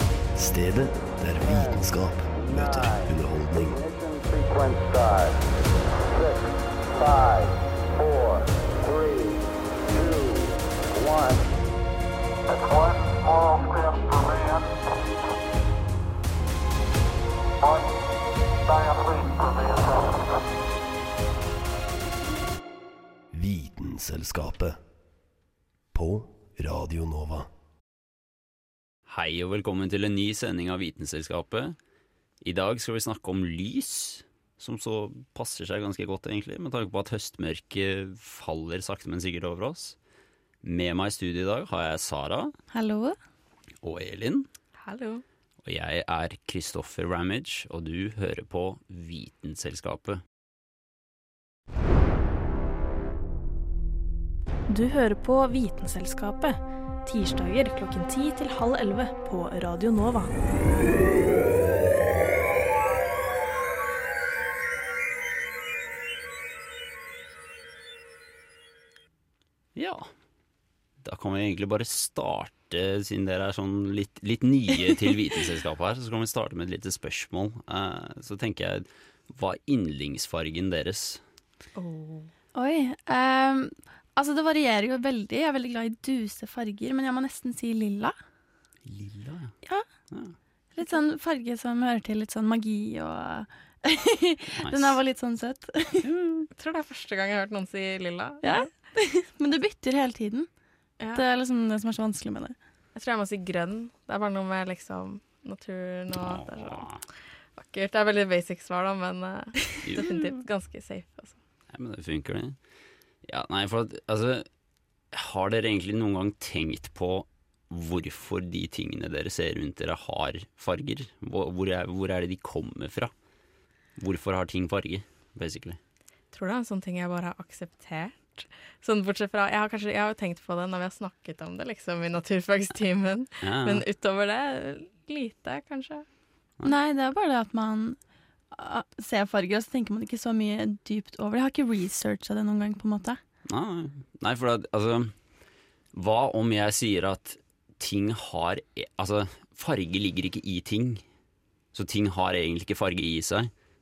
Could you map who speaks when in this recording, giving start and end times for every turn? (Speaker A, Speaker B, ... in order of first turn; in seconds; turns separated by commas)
Speaker A: 0.3-3.8, Speaker B: 1.4-1.8, Speaker B: 2.3-3.1, Speaker B: 3.7-5.4, Speaker B: 6.1-11.5, Speaker A: 23.3-24.8, Speaker A: 25.9-27.5, Speaker C: 29.1-31.8, Speaker C: 32.4-40.0, Speaker C: 40.6-42.5, Speaker D: 42.7-43.2, Speaker C: 43.8-44.5, Speaker E: 44.8-45.2, Speaker C: 45.6-50.2, Speaker F: 54.7-60.3, Speaker C: 69.7-70.1, Speaker C: 71.0-81.2, Speaker E: 81.7-82.3, Speaker D: 82.5-88.2, Speaker C: 88.8-89.5, Speaker D: 90.7-96.1, Speaker C: 94.6-95.0, Speaker C: 96.0-96.5, Speaker E: 96.6-98.7, Speaker D: 98.4-100.5, Speaker E: 101.0-101.2, Speaker D: 101.1-102.6, Speaker E: 102.9-111.4, Speaker C: 106.1-107.0, Speaker C: 109.8-110.3, Speaker C: 111.7-112.6, Speaker C: 113.2-114.5, Speaker C: 115.1-123.1, Speaker C: 124.0-125.8, Speaker E: 126.3-136.0, Speaker C: 133.4-133.8, Speaker D: 136.6-138.0, Speaker D: 138.5-143.2, Speaker C: 143.4-145.1, Speaker C: 145.9-151.0, Speaker C: 151.7-153.5